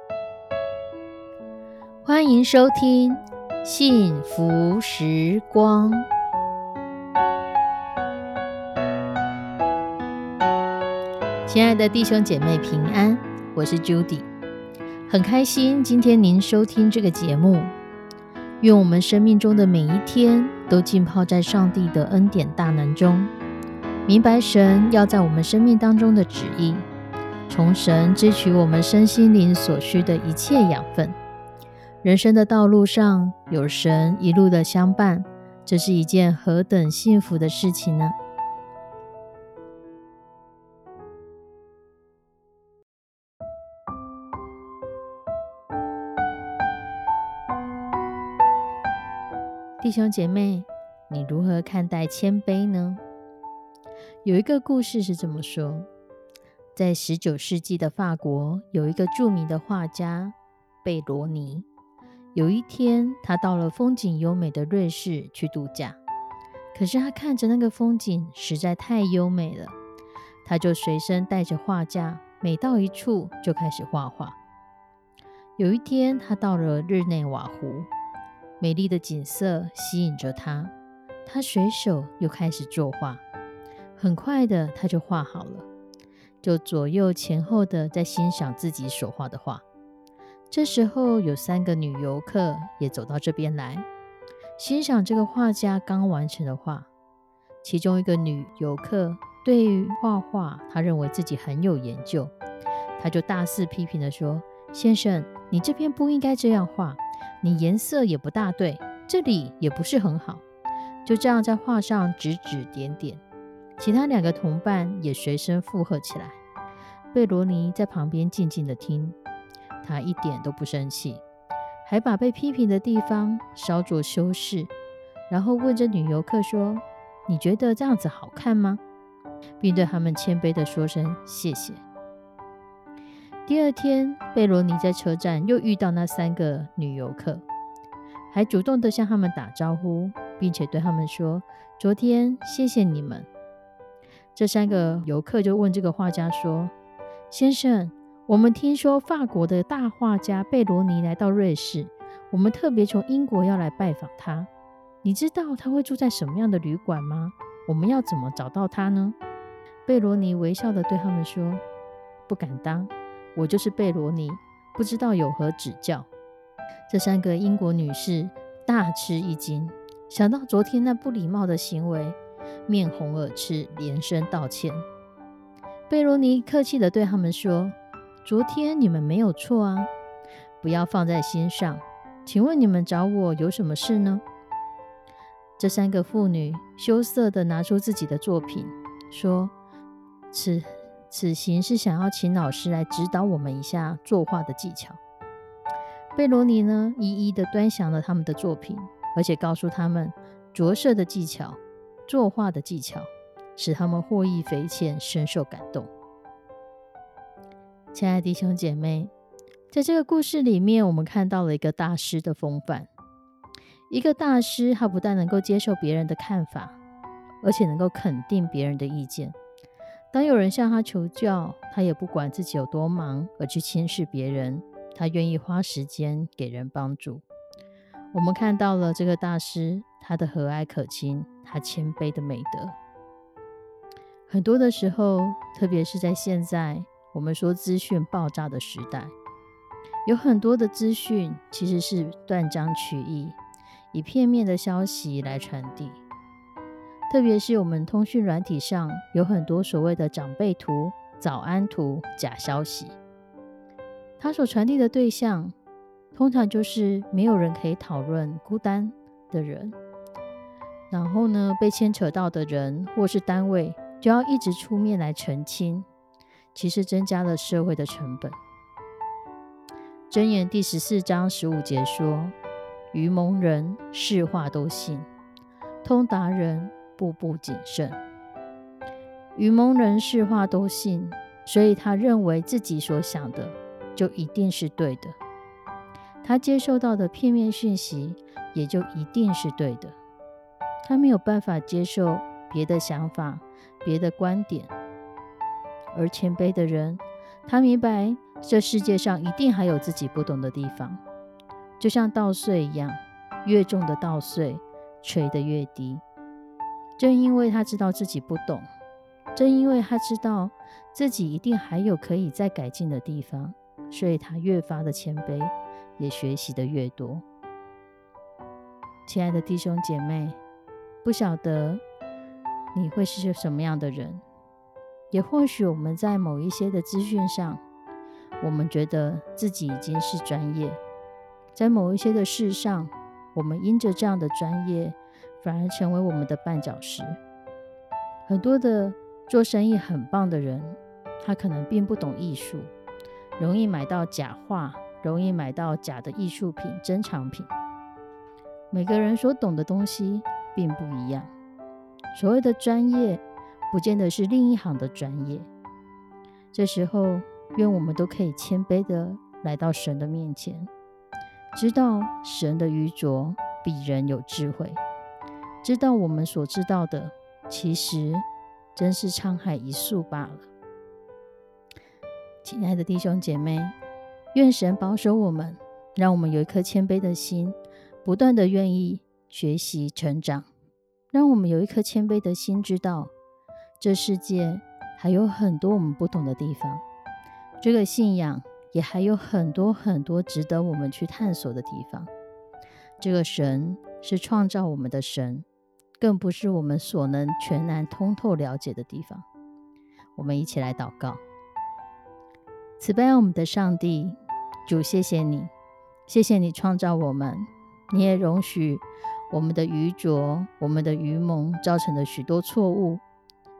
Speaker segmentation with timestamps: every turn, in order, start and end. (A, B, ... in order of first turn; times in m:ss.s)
0:02.0-0:06.1 A
0:11.5-0:14.3 A
0:15.1-0:17.7 A
0:18.6-0:23.3 A
0:24.1-0:26.9 A
0:27.5-0:31.2 A
0:32.0-0:38.2 A
0:49.8-0:53.0 A
0:54.2-0:55.9 A
0:56.8-1:01.7 A
1:02.3-1:06.0 A
1:06.7-1:09.8 A
1:10.4-1:14.4 A
1:15.6-1:17.9 A
1:18.6-1:20.7 A
1:21.3-1:23.2 A
1:24.0-1:25.7 A
1:26.4-1:29.6 A
1:30.5-1:33.9 A
1:34.6-1:36.9 A
1:37.6-1:42.3 A
1:43.0-1:50.4 A
1:51.0-1:53.2 A
1:53.8-1:56.4 A
1:57.1-1:59.2 A
1:59.8-2:01.2 A
2:01.8-2:04.7 A
2:05.3-2:08.8 A
2:09.6-2:11.8 A
2:13.5-2:17.4 A
2:18.3-2:23.3 A
2:24.4-2:26.7 A
2:27.3-2:34.5 A
2:35.0-2:39.2 A
2:39.9-2:41.6 A
2:42.3-2:46.1 A
2:46.9-2:54.8 A
2:55.9-2:59.9 A
3:00.6-3:04.2 A
3:05.6-3:09.5 A
3:10.3-3:15.0 A
3:16.2-3:25.9 A
3:27.9-3:29.1 A
3:29.7-3:32.9 A
3:33.9-3:36.8 A
3:37.4-3:39.4 A
3:40.1-3:47.2 A
3:48.1-3:52.8 A
3:54.3-3:59.1 A
4:00.1-4:03.4 A
4:03.9-4:06.0 A
4:07.1-4:13.0 A
4:14.2-4:15.5 A
4:16.1-4:19.8 A
4:20.9-4:25.9 A
4:26.6-4:28.4 A
4:30.1-4:32.4 A
4:32.9-4:35.1 A
4:35.8-4:38.0 A
4:39.4-4:45.2 A
4:46.2-4:50.0 A
4:50.8-4:54.7 A
4:55.9-5:01.0 A
5:01.8-5:06.0 A
5:07.0-5:08.7 A
5:09.4-5:17.2 A
5:19.1-5:20.4 A
5:21.0-5:21.8 A
5:22.7-5:24.2 A
5:25.1-5:27.6 A
5:28.4-5:30.8 A
5:31.6-5:37.2 A
5:38.3-5:42.7 A
5:43.4-5:47.5 A
5:48.7-5:51.3 A
5:52.1-5:55.5 A
5:56.5-6:00.7 A
6:01.5-6:04.8 A
6:05.6-6:08.2 A
6:08.8-6:10.5 A
6:12.4-6:13.8 A
6:14.3-6:20.5 A
6:21.1-6:23.1 A
6:23.8-6:26.8 A
6:27.6-6:32.1 A
6:33.0-6:35.5 A
6:36.0-6:39.3 A
6:40.2-6:41.2 A
6:42.8-6:45.5 A
6:46.1-6:53.0 A